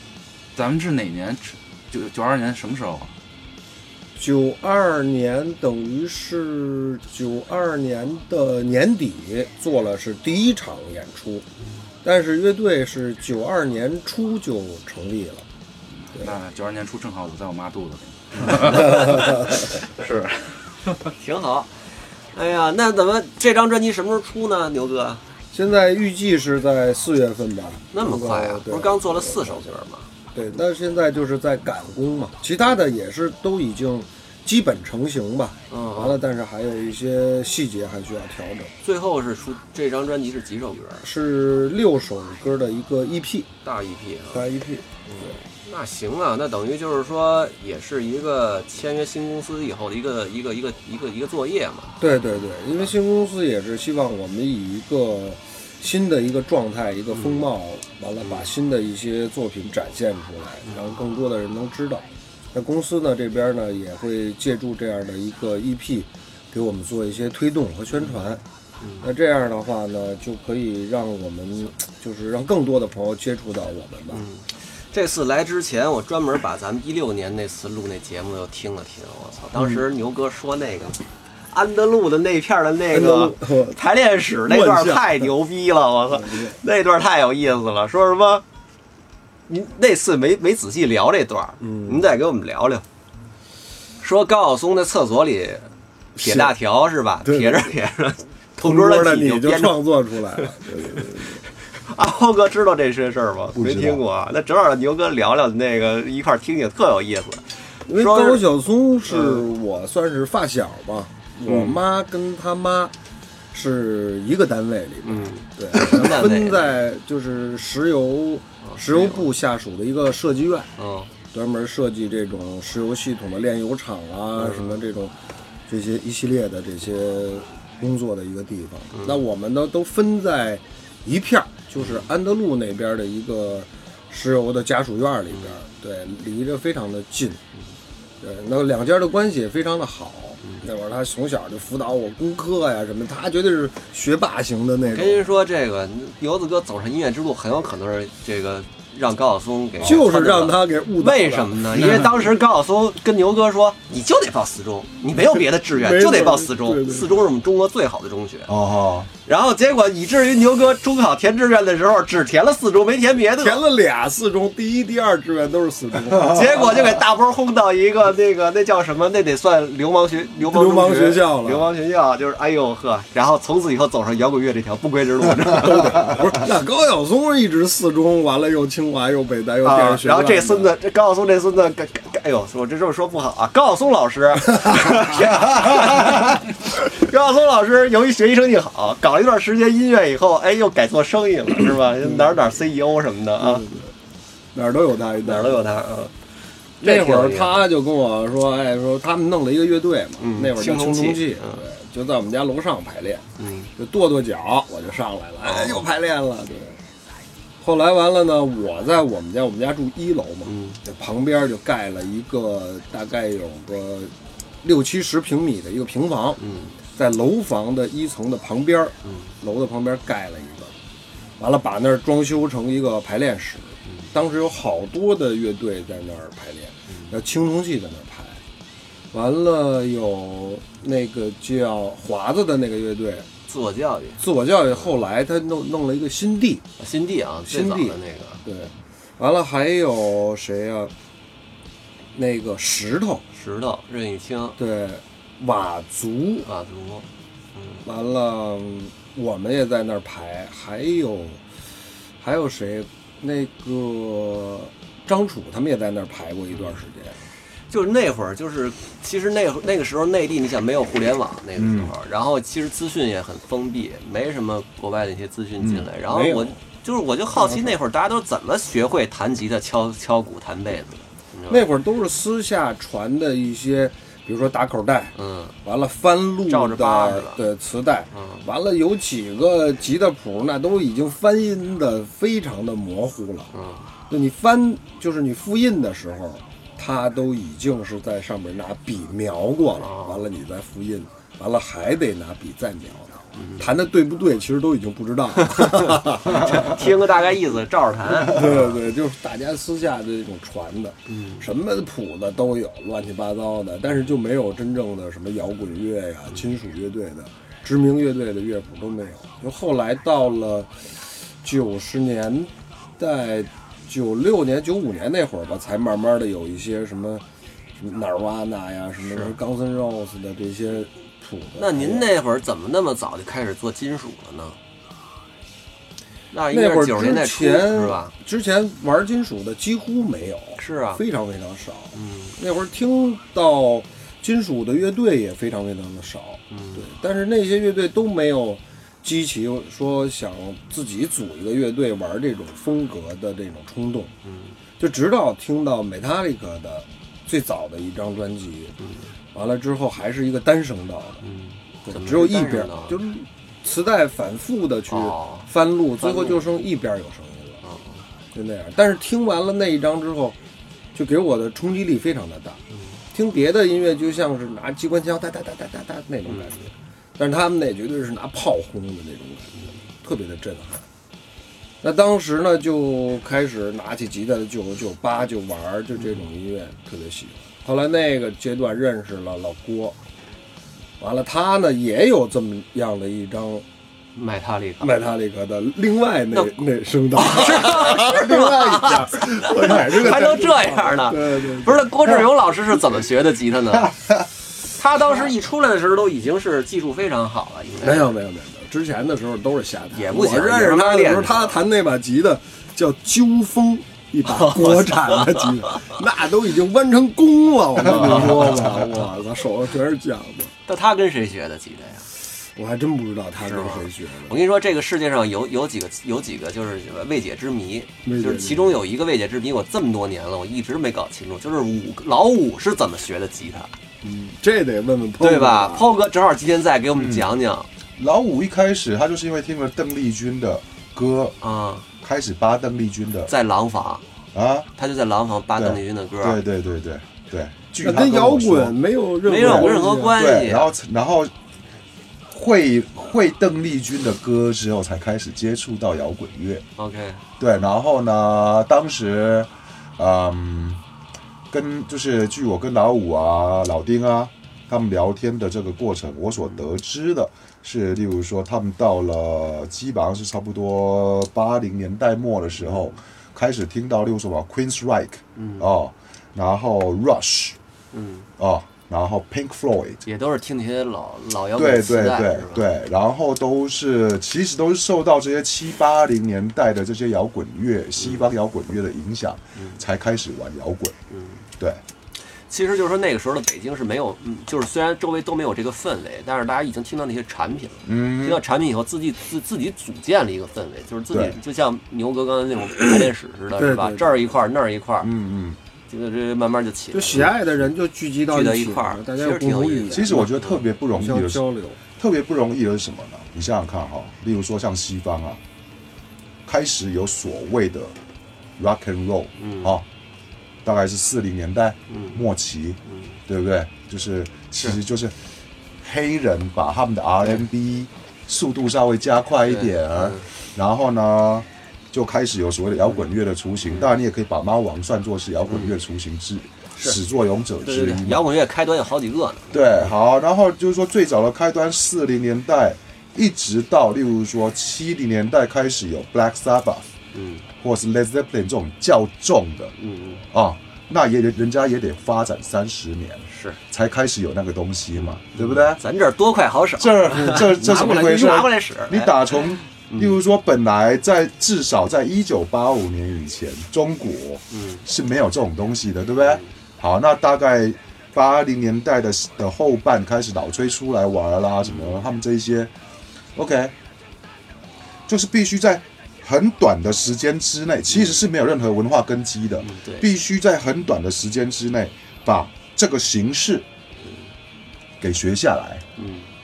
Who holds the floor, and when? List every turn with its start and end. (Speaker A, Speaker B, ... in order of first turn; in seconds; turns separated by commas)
Speaker A: 0.5-3.1, Speaker B: 4.2-11.4, Speaker B: 12.0-15.4, Speaker A: 16.0-21.1, Speaker C: 21.1-25.2, Speaker B: 25.5-29.7, Speaker C: 27.9-30.1, Speaker B: 30.3-38.7, Speaker C: 35.7-36.2, Speaker C: 38.8-41.1, Speaker B: 41.0-43.5, Speaker C: 43.6-44.5, Speaker B: 44.3-45.4, Speaker C: 45.1-52.0, Speaker B: 52.0-68.4, Speaker C: 57.1-57.4, Speaker C: 58.2-58.5, Speaker C: 60.6-61.0, Speaker C: 68.8-69.0, Speaker B: 69.0-74.2, Speaker C: 74.1-81.0, Speaker C: 81.5-88.4, Speaker B: 82.9-83.8, Speaker B: 84.4-85.3, Speaker B: 86.1-86.6, Speaker C: 89.5-92.8, Speaker B: 91.6-92.0, Speaker C: 94.0-99.8, Speaker B: 96.2-96.5, Speaker B: 97.2-97.7, Speaker B: 98.6-101.4, Speaker C: 101.7-108.4, Speaker D: 103.5-104.0, Speaker B: 107.9-112.9, Speaker C: 109.1-109.4, Speaker C: 111.5-111.8, Speaker B: 113.5-120.7, Speaker C: 115.0-116.8, Speaker C: 118.6-119.3, Speaker C: 120.8-121.1, Speaker B: 121.3-125.1, Speaker C: 124.4-124.8, Speaker B: 125.7-137.4, Speaker C: 128.9-129.2, Speaker C: 131.8-132.1, Speaker B: 138.2-145.2, Speaker C: 144.9-158.5, Speaker B: 149.8-152.0, Speaker B: 155.2-157.2, Speaker D: 158.5-159.1, Speaker C: 159.2-163.6, Speaker B: 163.4-167.0, Speaker C: 166.1-176.4, Speaker B: 170.4-171.7, Speaker B: 175.9-180.7, Speaker C: 179.6-193.6, Speaker B: 193.4-193.9, Speaker B: 194.5-195.6, Speaker C: 195.2-196.1, Speaker C: 196.8-197.7, Speaker B: 196.8-203.2, Speaker C: 200.2-201.6, Speaker C: 203.4-203.7, Speaker B: 203.8-206.8, Speaker C: 205.4-205.8, Speaker B: 207.6-216.4, Speaker C: 210.4-210.8, Speaker C: 216.4-216.8, Speaker B: 216.9-220.7, Speaker C: 219.0-219.3, Speaker B: 221.4-228.4, Speaker C: 223.8-224.1, Speaker B: 229.1-233.3, Speaker C: 233.5-234.2, Speaker B: 234.2-236.6, Speaker C: 236.8-238.4, Speaker B: 237.4-240.9, Speaker B: 242.1-243.2, Speaker C: 243.3-244.6, Speaker B: 244.6-246.5, Speaker C: 246.4-247.8, Speaker B: 247.8-251.4, Speaker B: 252.2-257.2, Speaker C: 257.7-271.6, Speaker D: 261.6-261.9, Speaker D: 265.6-265.9, Speaker B: 266.1-266.6, Speaker B: 267.4-267.7, Speaker B: 271.5-283.5, Speaker C: 275.1-275.6, Speaker C: 276.5-277.4, Speaker C: 278.1-278.5, Speaker C: 283.5-283.9, Speaker B: 284.1-296.8, Speaker C: 289.8-290.2, Speaker C: 293.3-293.7, Speaker C: 295.6-298.8, Speaker B: 298.2-317.2, Speaker C: 301.1-301.5, Speaker B: 317.8-322.1, Speaker C: 319.1-319.4, Speaker C: 321.6-324.6, Speaker C: 326.3-328.1, Speaker B: 326.5-344.1, Speaker C: 330.6-331.0, Speaker C: 331.9-332.4, Speaker C: 336.5-336.9, Speaker C: 344.2-344.6, Speaker B: 344.8-348.7, Speaker C: 348.8-349.1, Speaker B: 349.3-351.2, Speaker C: 351.2-353.0, Speaker B: 351.9-357.6, Speaker C: 354.9-355.5, Speaker C: 356.0-356.5, Speaker C: 357.6-358.0, Speaker B: 358.3-360.4, Speaker B: 360.9-362.6, Speaker C: 362.7-363.0, Speaker B: 363.1-370.8, Speaker C: 366.3-366.6, Speaker B: 371.8-380.0, Speaker B: 381.0-383.6, Speaker C: 384.1-385.0, Speaker B: 384.8-392.2, Speaker C: 386.3-386.6, Speaker C: 387.2-393.9, Speaker C: 394.6-398.1, Speaker B: 397.8-410.5, Speaker C: 399.9-401.6, Speaker C: 404.2-405.8, Speaker C: 408.0-408.3, Speaker C: 410.6-412.1, Speaker B: 412.6-414.4, Speaker C: 413.4-423.7, Speaker B: 418.0-418.8, Speaker B: 424.0-425.9, Speaker C: 425.2-427.7, Speaker D: 426.9-427.2, Speaker D: 428.0-431.4, Speaker C: 431.4-431.8, Speaker D: 432.0-433.3, Speaker C: 433.3-434.0, Speaker D: 434.3-434.7, Speaker C: 434.8-436.4, Speaker D: 435.6-438.7, Speaker B: 437.8-440.2, Speaker C: 439.2-440.7, Speaker D: 439.4-441.3, Speaker D: 442.3-446.6, Speaker C: 446.8-447.2, Speaker D: 447.4-450.8, Speaker D: 451.5-467.6, Speaker C: 462.6-462.9, Speaker C: 465.4-465.7, Speaker C: 467.9-468.3, Speaker D: 468.4-470.0, Speaker C: 470.0-472.7, Speaker D: 471.6-480.9, Speaker C: 478.0-478.3, Speaker C: 479.6-479.8, Speaker C: 481.1-481.5, Speaker C: 482.5-495.1, Speaker D: 487.8-488.4, Speaker D: 491.1-491.4, Speaker B: 493.6-494.1, Speaker D: 495.0-495.6, Speaker C: 495.9-497.5, Speaker B: 496.9-500.3, Speaker C: 498.3-500.6, Speaker D: 499.9-501.4, Speaker B: 500.9-501.8, Speaker D: 502.0-505.4, Speaker D: 506.4-507.9, Speaker D: 508.6-509.8, Speaker C: 509.4-509.8, Speaker D: 510.6-515.1, Speaker C: 511.9-512.2, Speaker C: 512.9-513.2, Speaker D: 515.8-528.3, Speaker C: 519.4-520.3, Speaker C: 525.5-525.8, Speaker C: 526.7-527.0, Speaker C: 527.6-529.9, Speaker D: 529.5-536.9, Speaker C: 537.1-537.5, Speaker D: 537.6-539.7, Speaker C: 539.8-540.2, Speaker D: 540.3-545.8, Speaker C: 543.3-543.6, Speaker C: 545.0-550.2, Speaker D: 546.8-562.7, Speaker C: 554.5-554.8, Speaker C: 556.2-556.5, Speaker C: 561.6-562.1, Speaker D: 563.3-563.7, Speaker D: 565.1-573.6, Speaker C: 567.9-568.2, Speaker C: 569.6-570.1, Speaker C: 574.0-574.3, Speaker D: 575.0-575.9, Speaker C: 576.0-576.3